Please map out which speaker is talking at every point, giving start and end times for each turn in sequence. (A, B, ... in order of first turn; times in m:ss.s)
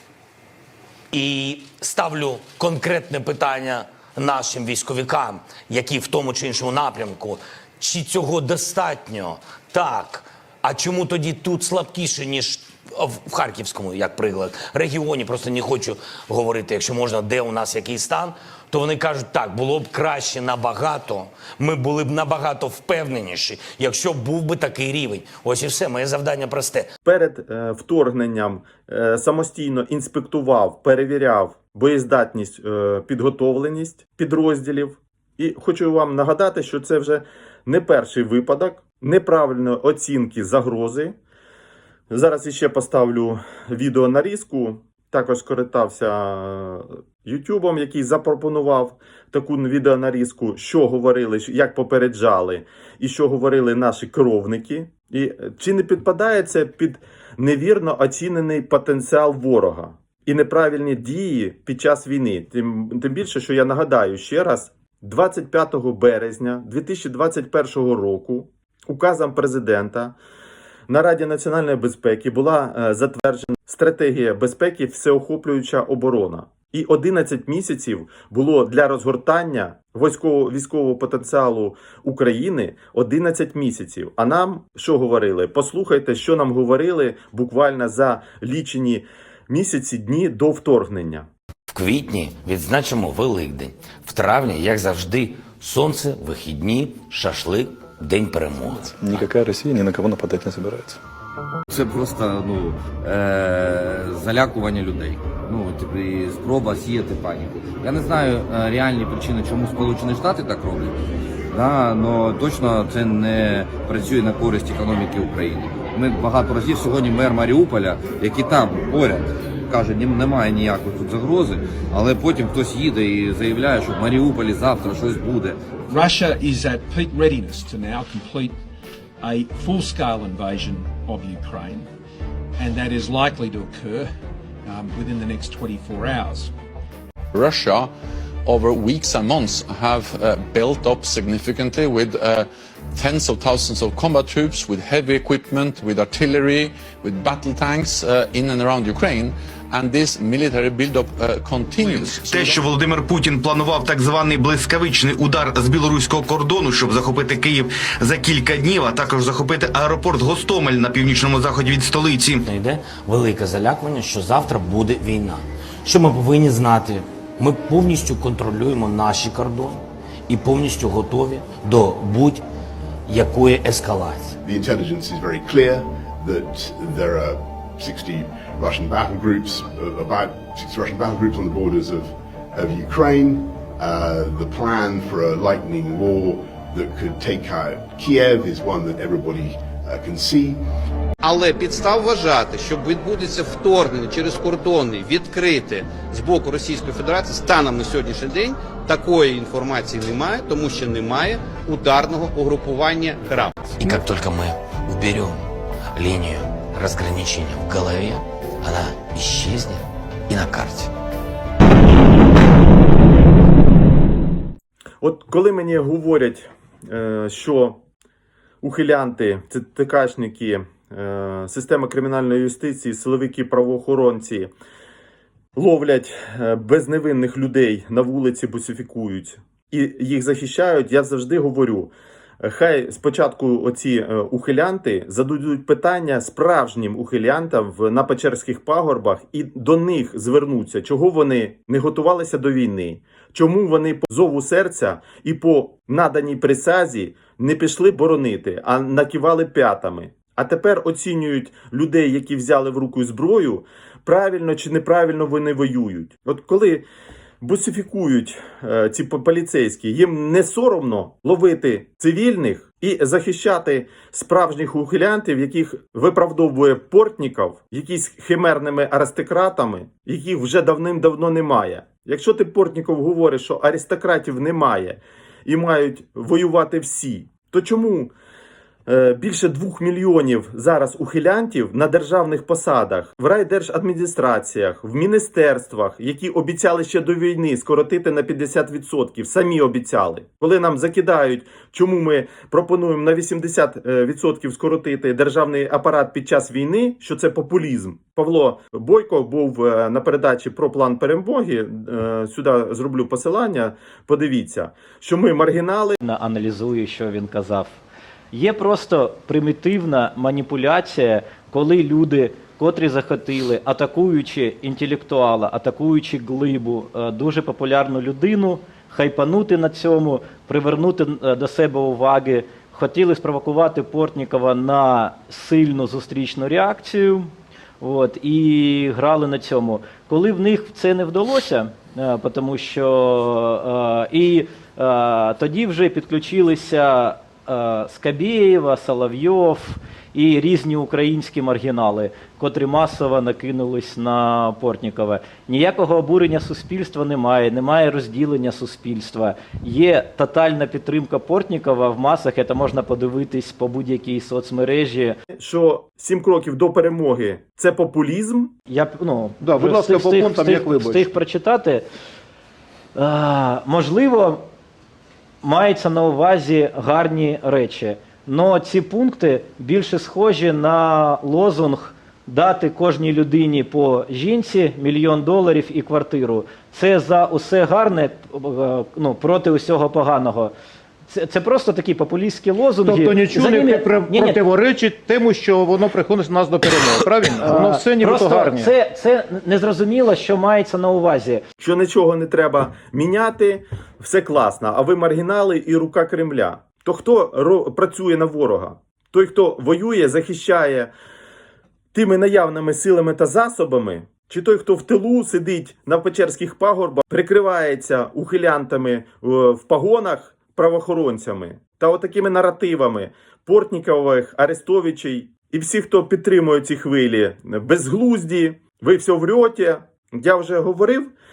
0:01.1-0:26.9 A
0:27.0-0:41.2 B
0:42.1-1:10.2 B
1:10.9-1:31.3 B
1:31.7-1:38.9 A
1:38.9-1:41.0 C
1:41.7-1:51.0 D
1:51.5-2:05.6 D
2:05.9-2:08.6 E
2:09.2-2:11.9 E
2:12.6-2:14.1 E
2:14.6-2:16.5 E
2:17.3-2:17.9 F
2:18.4-2:32.6 F
2:31.8-2:42.5 G
2:42.5-2:52.4 A
2:53.1-2:54.4 A
2:54.4-3:10.6 H
3:11.2-3:23.7 I
3:23.8-3:30.9 A
3:35.0-3:37.8 B
3:38.6-3:44.5 B
3:45.6-4:16.9 B
4:17.4-4:38.1 B
4:38.9-5:06.0 B
5:06.0-5:07.8 J
5:08.3-5:55.2 J
5:55.3-5:58.5 B
5:58.7-6:01.8 J
5:59.4-6:01.2 K
6:03.0-6:04.4 J
6:05.4-6:20.5 J
6:21.1-6:24.4 J
6:22.8-6:28.7 K
6:27.4-6:31.4 J
6:31.6-6:40.9 B
6:41.9-7:01.1 B